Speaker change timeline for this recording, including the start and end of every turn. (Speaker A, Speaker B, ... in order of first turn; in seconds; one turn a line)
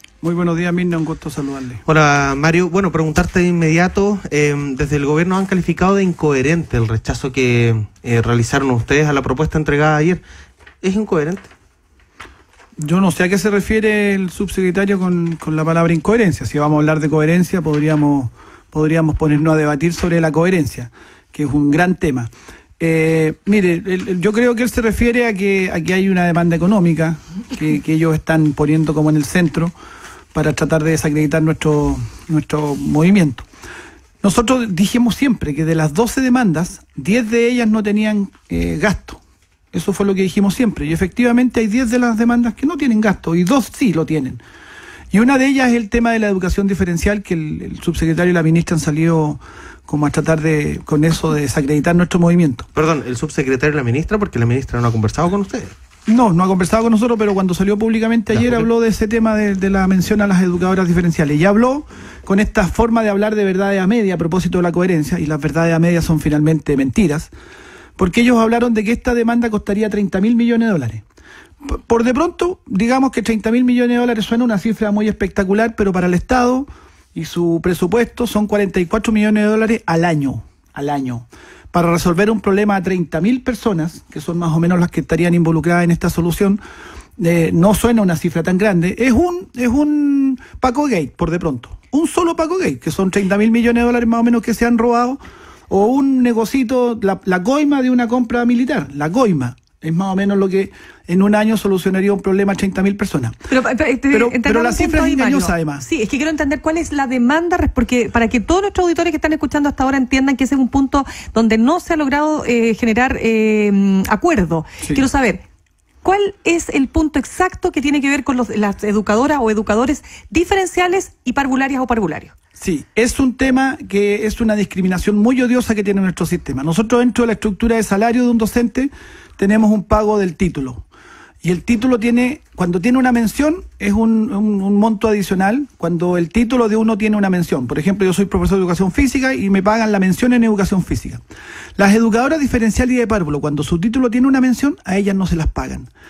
Speaker A: 0.2-1.8
Speaker B: 1.9-10.2
Speaker B: 10.8-11.5
Speaker A: 12.8-29.7
Speaker A: 30.3-33.5
Speaker A: 34.2-39.2
Speaker A: 39.7-44.4
Speaker A: 45.1-52.7
Speaker B: 52.8-55.7
Speaker A: 56.1-67.3
Speaker A: 68.0-71.0
Speaker A: 71.6-86.6
Speaker A: 87.2-103.4
Speaker C: 103.5-115.4
Speaker A: 104.1-105.8
Speaker C: 116.0-122.3
Speaker A: 122.6-130.8
Speaker A: 131.4-141.2
Speaker A: 141.8-145.9